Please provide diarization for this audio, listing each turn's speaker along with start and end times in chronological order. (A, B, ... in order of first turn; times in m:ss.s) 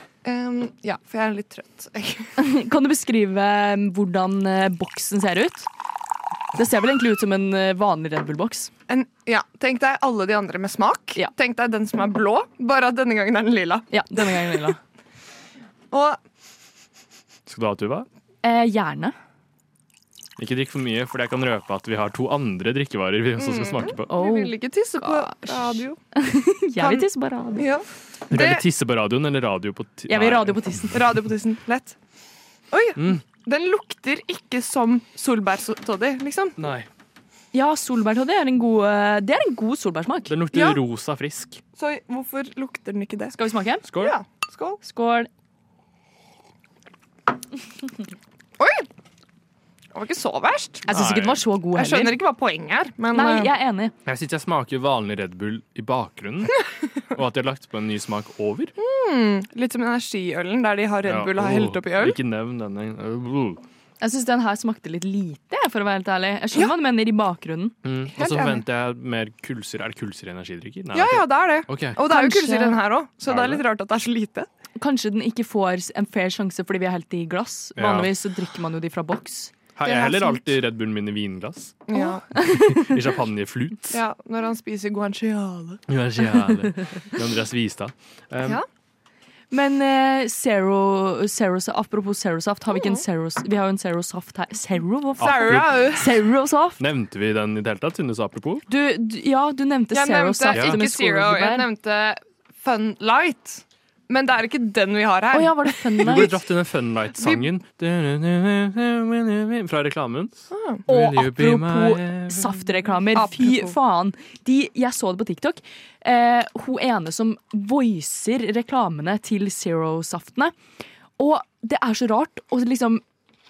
0:00.2-0:02.3 A
0:02.4-0:05.7 B
0:06.5-0:08.7 B
0:08.9-0:13.9 A
0:13.9-0:14.8 B
0:15.9-0:16.2 A
0:17.5-0:18.1 C
0:18.4-0:19.1 B
0:20.4-0:24.1 C
0:23.4-0:26.0 A
0:24.1-0:27.7 B
0:26.8-0:28.6 A
0:28.3-0:31.0 C
0:30.1-0:31.0 B
0:30.9-0:32.0 A
0:32.7-0:36.6 A
0:33.0-0:33.2 C
0:36.6-0:36.9 C
0:37.5-0:40.4 B
0:40.3-0:41.6 C
0:40.5-0:40.8 A
0:41.8-0:43.3 A
0:43.3-0:43.8 B
0:43.9-0:44.2 C
0:43.9-0:44.8 A
0:44.8-0:45.3 B
0:48.6-0:48.9 A
0:49.9-0:50.9 A
0:50.9-0:52.2 B
0:50.9-0:51.4 C
0:51.7-0:53.5 A
0:53.1-0:53.9 B
0:54.0-0:56.6 C
0:57.1-0:58.7 C
0:58.8-1:02.2 A
1:01.0-1:03.6 C
1:04.0-1:07.7 B
1:07.8-1:12.0 C
1:08.2-1:08.6 A
1:10.9-1:14.5 A
1:12.0-1:12.8 B
1:13.3-1:13.6 C
1:14.8-1:19.5 B
1:17.8-1:18.1 C
1:19.8-1:21.8 C
1:19.8-1:20.5 A
1:21.9-1:22.2 A
1:21.9-1:23.0 B
1:22.3-1:24.0 C
1:23.9-1:25.8 A
1:25.9-1:28.6 C
1:29.5-1:36.8 B
1:32.7-1:33.0 A
1:35.2-1:35.9 C
1:35.2-1:36.0 A
1:36.8-1:38.6 C
1:38.7-1:41.6 B
1:39.9-1:46.3 A
1:40.5-1:40.8 C
1:45.3-1:46.3 B
1:46.0-1:52.6 C
1:47.2-1:47.4 A
1:50.5-1:50.8 A
1:50.9-2:00.5 B
1:53.1-1:53.7 A
2:01.2-2:03.0 B